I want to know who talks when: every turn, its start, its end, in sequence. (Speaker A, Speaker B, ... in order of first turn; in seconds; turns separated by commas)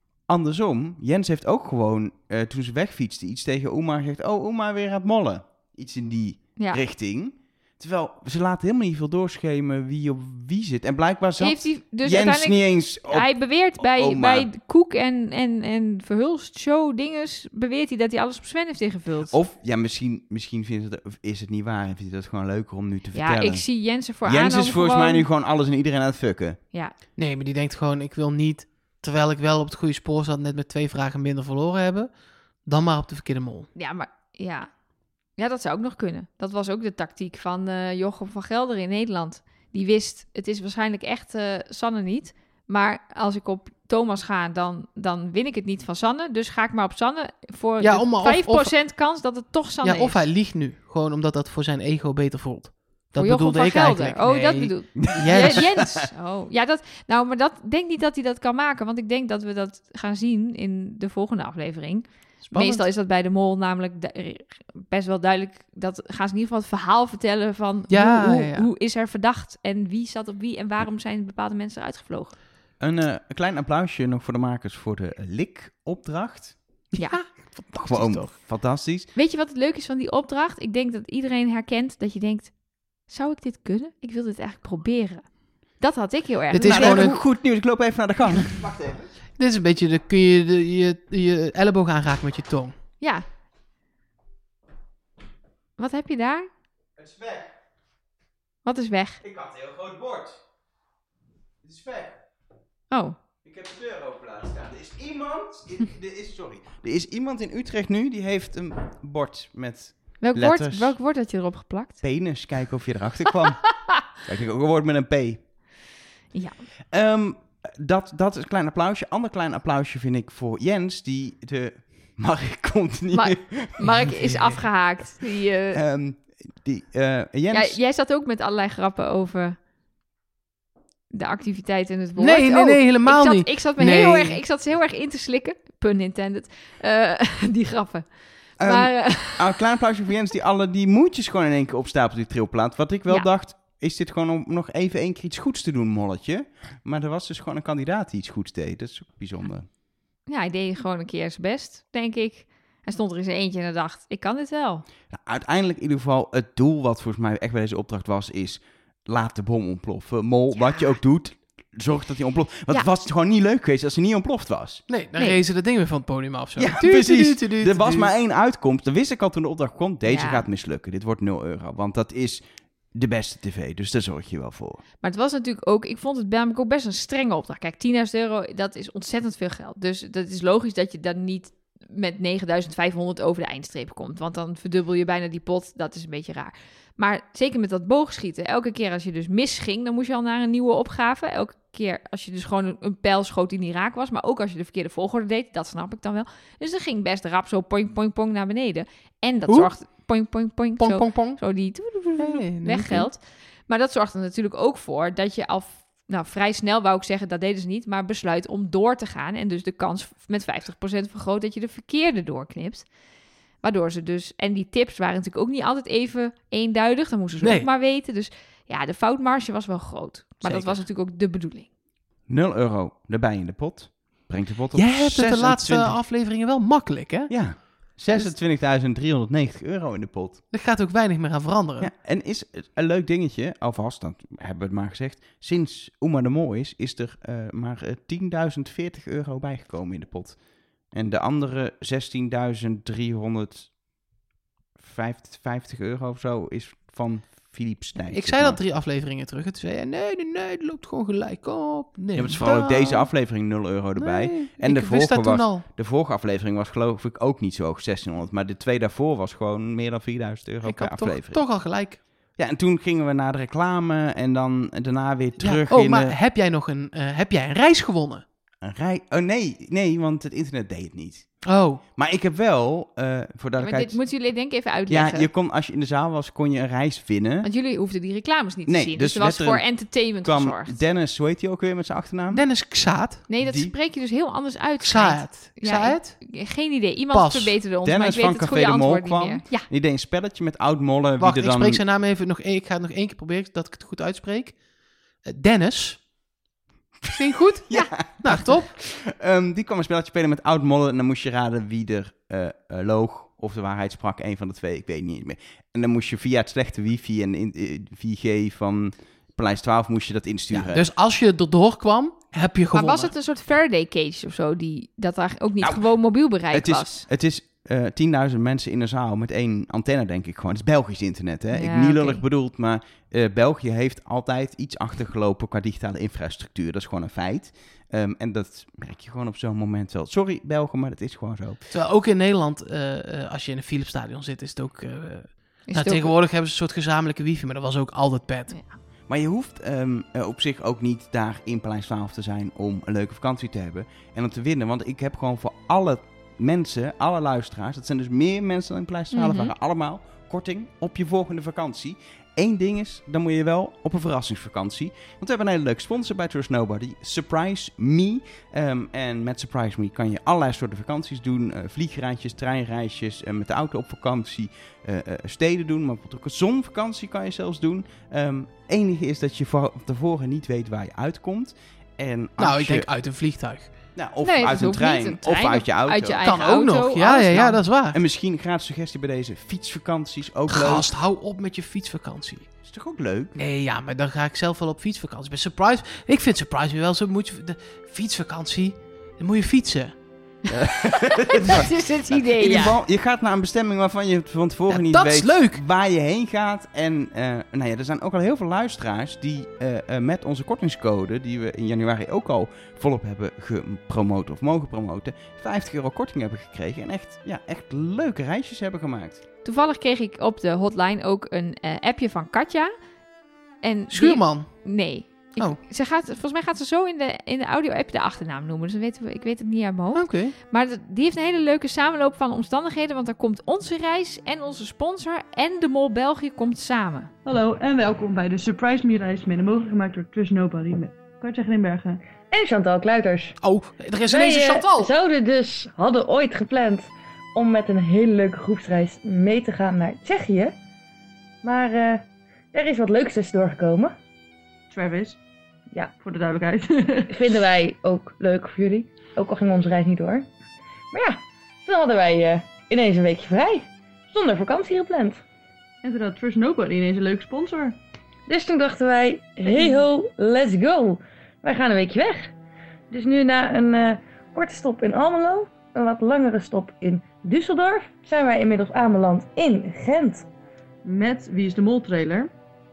Speaker A: 0.3-14.5, Speaker B: 11.4-19.3, Speaker A: 19.3-23.7, Speaker B: 23.1-25.3, Speaker A: 24.2-26.6, Speaker C: 27.2-32.1, Speaker C: 32.7-33.7, Speaker B: 33.8-34.7, Speaker B: 35.4-50.2, Speaker C: 47.8-48.8, Speaker C: 49.8-55.7, Speaker B: 53.2-72.3, Speaker A: 55.0-56.0, Speaker C: 62.4-62.9, Speaker C: 67.9-68.7, Speaker A: 72.8-76.6, Speaker C: 77.0-78.3, Speaker A: 77.8-79.1, Speaker B: 79.2-87.1, Speaker C: 86.5-87.2, Speaker A: 86.6-89.1, Speaker C: 89.4-92.8, Speaker B: 93.0-93.3, Speaker B: 95.8-96.5, Speaker A: 97.0-97.5, Speaker B: 98.7-99.2, Speaker A: 99.2-100.4, Speaker A: 101.6-102.2, Speaker B: 102.9-103.2, Speaker A: 103.4-111.0, Speaker B: 110.2-112.0, Speaker A: 112.0-115.5, Speaker B: 116.3-116.6, Speaker A: 116.9-124.5, Speaker B: 123.1-125.8, Speaker A: 125.7-127.8, Speaker B: 127.5-129.6, Speaker B: 131.1-138.1, Speaker C: 132.2-134.4, Speaker B: 138.6-139.6, Speaker A: 138.6-149.7, Speaker B: 150.3-154.9, Speaker A: 155.1-164.8, Speaker B: 160.6-161.0, Speaker C: 164.9-168.1, Speaker A: 166.6-172.4, Speaker B: 170.1-170.4, Speaker A: 172.9-174.8, Speaker B: 175.0-212.9, Speaker C: 200.8-201.4, Speaker C: 202.2-203.1, Speaker B: 213.6-221.7, Speaker C: 217.4-217.7, Speaker A: 220.4-220.8, Speaker A: 222.3-226.0, Speaker C: 224.7-228.3, Speaker A: 227.3-230.4, Speaker C: 230.5-231.9, Speaker A: 231.8-240.4, Speaker A: 240.9-243.7, Speaker A: 244.8-248.6, Speaker C: 248.1-253.1, Speaker A: 252.2-261.4, Speaker C: 254.0-255.7, Speaker C: 260.6-262.0, Speaker A: 262.4-266.1, Speaker C: 265.4-268.2, Speaker A: 268.6-271.4, Speaker C: 271.4-271.8, Speaker A: 272.0-274.0, Speaker B: 273.6-275.3, Speaker A: 274.9-277.5, Speaker B: 277.4-280.8, Speaker A: 278.7-282.5, Speaker C: 282.3-283.3, Speaker B: 283.3-289.7, Speaker A: 283.4-283.7, Speaker C: 284.8-286.2, Speaker C: 287.1-287.6, Speaker A: 287.8-291.8, Speaker C: 291.2-294.6, Speaker C: 295.2-296.0, Speaker A: 297.0-310.8, Speaker C: 297.1-298.7, Speaker C: 310.5-313.1, Speaker B: 312.7-317.1, Speaker A: 316.5-331.6, Speaker B: 321.5-322.2, Speaker C: 331.7-338.6, Speaker B: 335.7-336.1, Speaker A: 339.1-372.9, Speaker B: 349.1-349.5, Speaker C: 372.4-373.7, Speaker A: 374.0-376.2, Speaker B: 374.2-377.6, Speaker C: 376.2-378.0, Speaker A: 377.9-380.9, Speaker C: 380.5-382.5, Speaker A: 382.6-383.4, Speaker C: 383.4-390.0, Speaker A: 390.5-409.2, Speaker B: 390.6-392.8, Speaker C: 394.7-395.6, Speaker B: 409.4-412.7, Speaker B: 413.6-427.1, Speaker C: 413.9-414.7, Speaker C: 419.9-420.4, Speaker D: 427.3-432.0, Speaker E: 432.3-433.4, Speaker C: 433.4-434.9, Speaker E: 434.1-440.5, Speaker E: 441.4-443.9, Speaker D: 444.7-445.2, Speaker D: 446.0-447.3, Speaker E: 447.1-450.3, Speaker E: 450.9-455.2, Speaker D: 455.8-457.8, Speaker E: 458.3-462.3, Speaker E: 462.9-470.3, Speaker D: 470.8-472.3